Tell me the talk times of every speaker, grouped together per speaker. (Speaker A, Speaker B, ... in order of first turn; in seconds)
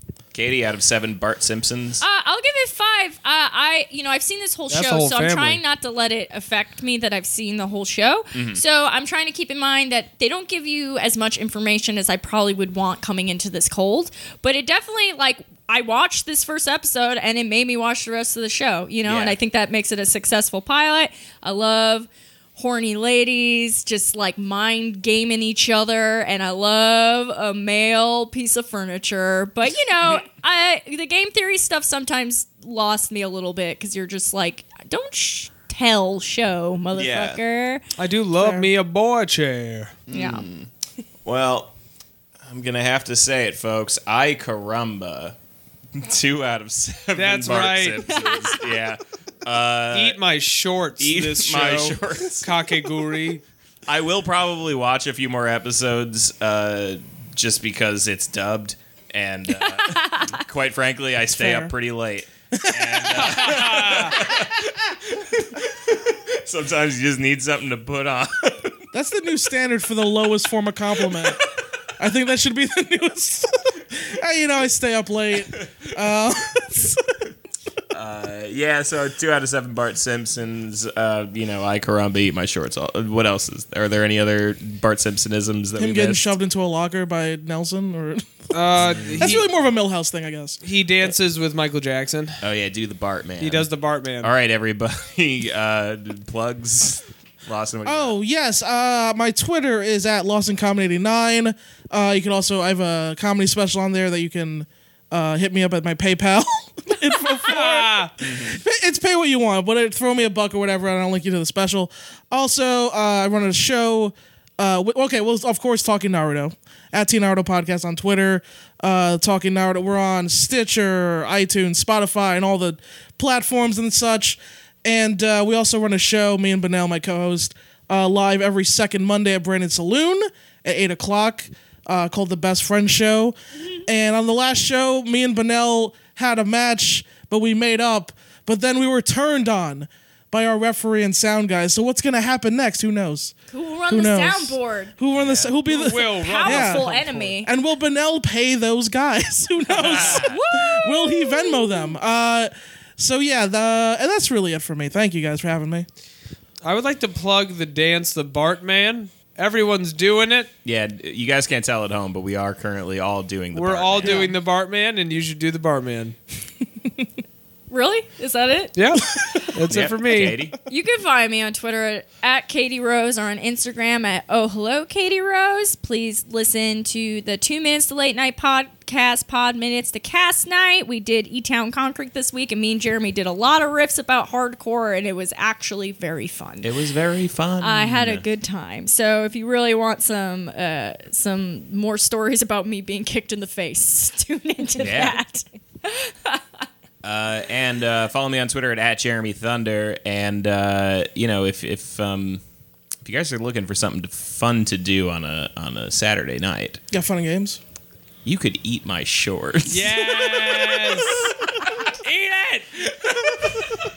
Speaker A: 0.3-2.0, 8.3-8.6, 19.1-19.4, 36.9-37.4, 40.1-40.7, 41.2-41.7, 42.5-45.3, 46.0-50.2, 51.0-52.5, 53.9-68.8, 77.9-86.3, 88.8-89.5, 92.4-93.7, 94.2-98.1, 108.2-108.6, 145.1-145.5, 149.7-150.3, 160.6-164.3, 169.7-170.6, 186.6-188.2, 194.8-195.2, 197.0-202.4, 203.0-206.8, 208.2-211.3, 212.8-213.7
Speaker B: 2.0-37.8, 40.1-40.5, 48.0-48.7, 59.5-60.4, 143.5-144.9, 146.2-147.5, 149.9-151.9, 167.7-169.5, 170.7-186.7, 187.6-196.6
Speaker C: 4.7-5.6, 38.0-40.0, 47.2-48.1, 49.9-53.4, 63.2-64.2, 88.5-89.5, 90.6-92.4, 93.4-94.3, 107.4-108.1, 145.7-147.3, 156.6-160.5, 163.5-166.2, 168.8-170.4, 209.7-211.4, 212.0-212.7
Speaker D: 38.4-38.7, 61.3-61.7, 62.5-63.4, 68.9-71.4, 72.0-77.0, 85.8-88.3, 89.2-90.6, 97.8-143.3, 143.9-146.9, 147.4-155.9, 164.1-164.3, 206.9-207.6